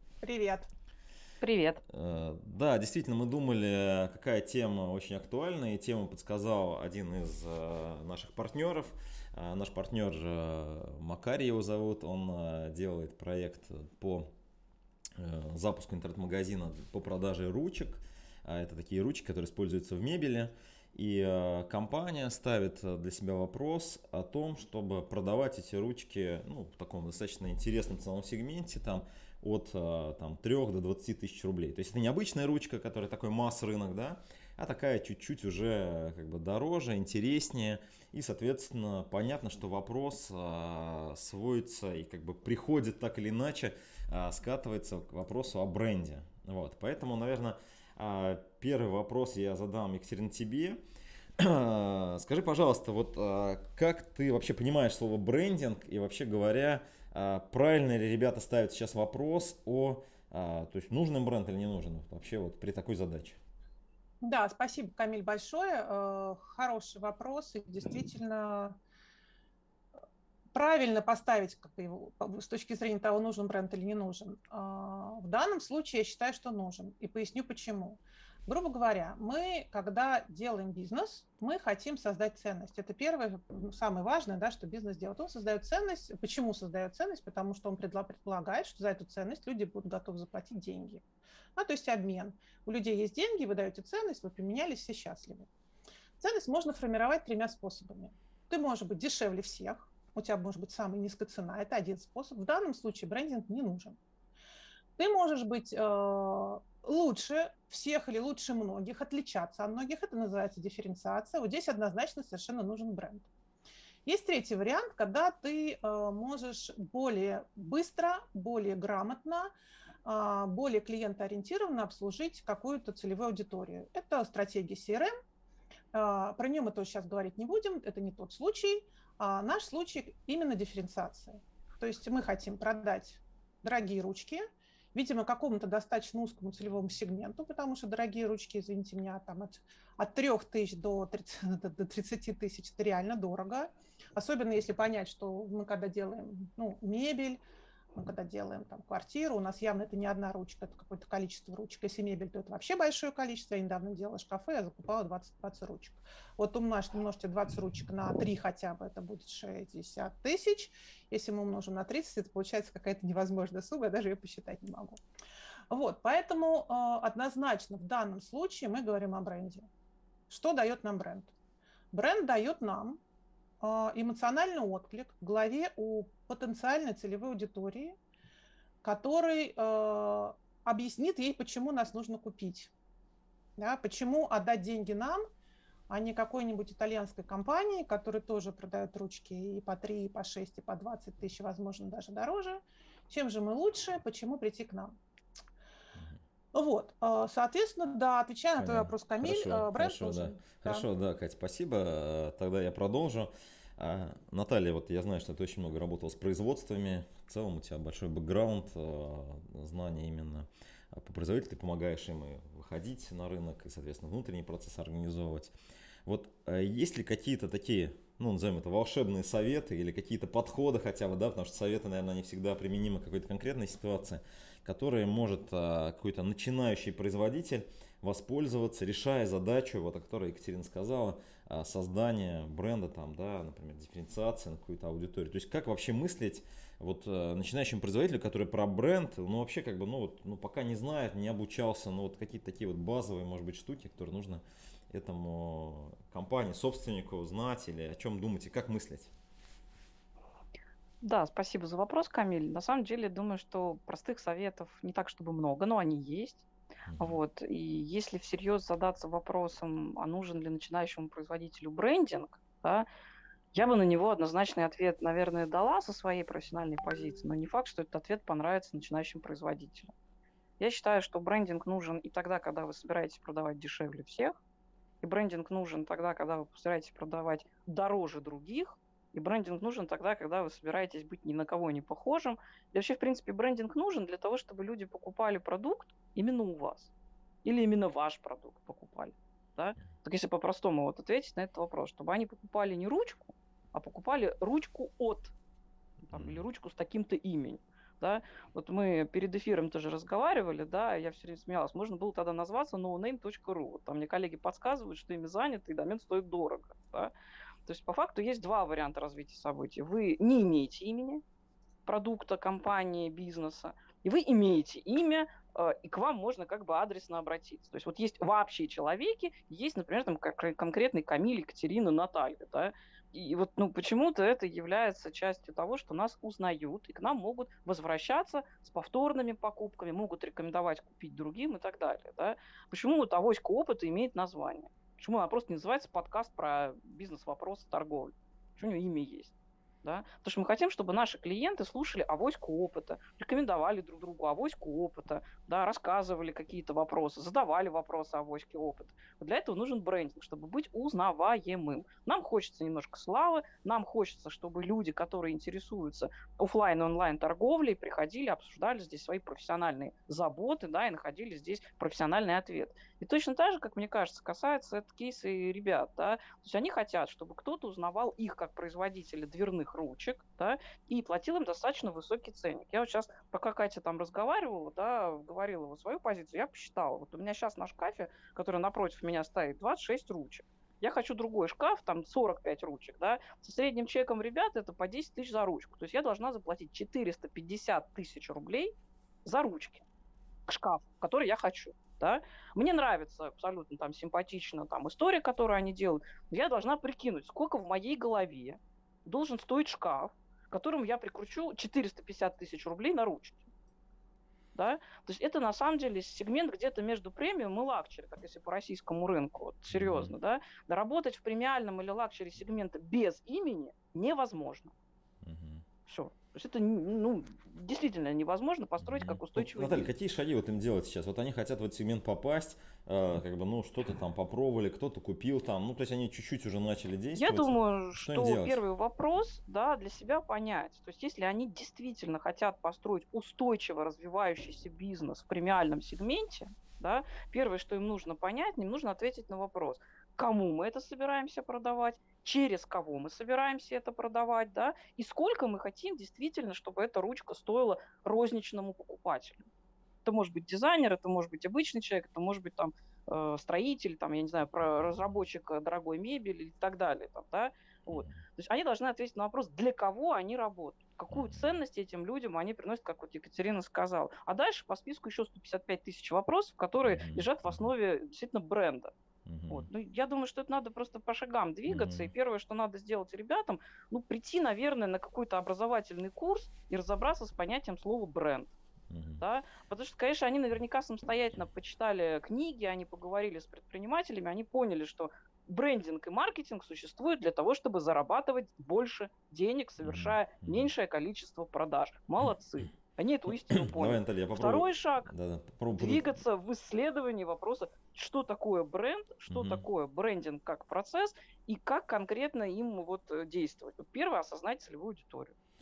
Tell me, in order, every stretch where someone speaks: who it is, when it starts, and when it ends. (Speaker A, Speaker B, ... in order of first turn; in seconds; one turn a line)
Speaker A: 0.2-0.7
Speaker B: 1.4-1.8
Speaker C: 1.9-14.3
Speaker C: 15.2-50.8
Speaker C: 51.4-63.4
Speaker A: 64.2-68.8
Speaker A: 70.5-91.0
Speaker A: 91.6-95.5
Speaker A: 96.2-104.0
Speaker A: 105.0-113.3
Speaker A: 114.1-119.5
Speaker A: 120.0-125.1
Speaker A: 125.9-147.4
Speaker A: 148.0-165.0
Speaker A: 165.7-169.7
Speaker A: 170.3-171.3
Speaker A: 171.9-173.0
Speaker A: 173.6-178.0
Speaker A: 178.8-182.7
Speaker A: 183.6-185.2
Speaker A: 185.9-194.9
Speaker A: 196.5-200.9
Speaker C: 198.6-215.5
Speaker C: 216.1-249.1
Speaker B: 251.0-256.4
Speaker C: 256.9-257.2
Speaker B: 257.0-262.9
Speaker B: 263.5-269.9
Speaker B: 270.6-274.4
Speaker B: 275.0-286.9
Speaker B: 287.4-295.3
Speaker B: 296.1-307.1
Speaker C: 296.1-296.4
Speaker B: 307.7-311.2
Speaker B: 311.9-339.3
Speaker B: 339.8-388.7
Speaker B: 389.2-389.8
Speaker B: 390.5-403.5
Speaker B: 404.6-414.7
Speaker C: 409.7-410.1
Speaker C: 415.2-415.6
Speaker B: 415.9-419.9
Speaker C: 418.8-428.6
Speaker B: 427.2-449.5
Speaker B: 450.1-468.9
Speaker C: 457.9-458.2
Speaker C: 461.1-461.6
Speaker C: 466.8-467.7
Speaker C: 469.3-469.7
Speaker B: 469.5-478.5
Speaker C: 471.7-472.1
Speaker C: 478.9-479.2
Speaker B: 479.2-495.1
Speaker C: 489.8-490.7
Speaker C: 492.2-492.7
Speaker C: 493.5-496.1
Speaker B: 495.7-505.4
Speaker C: 499.3-499.6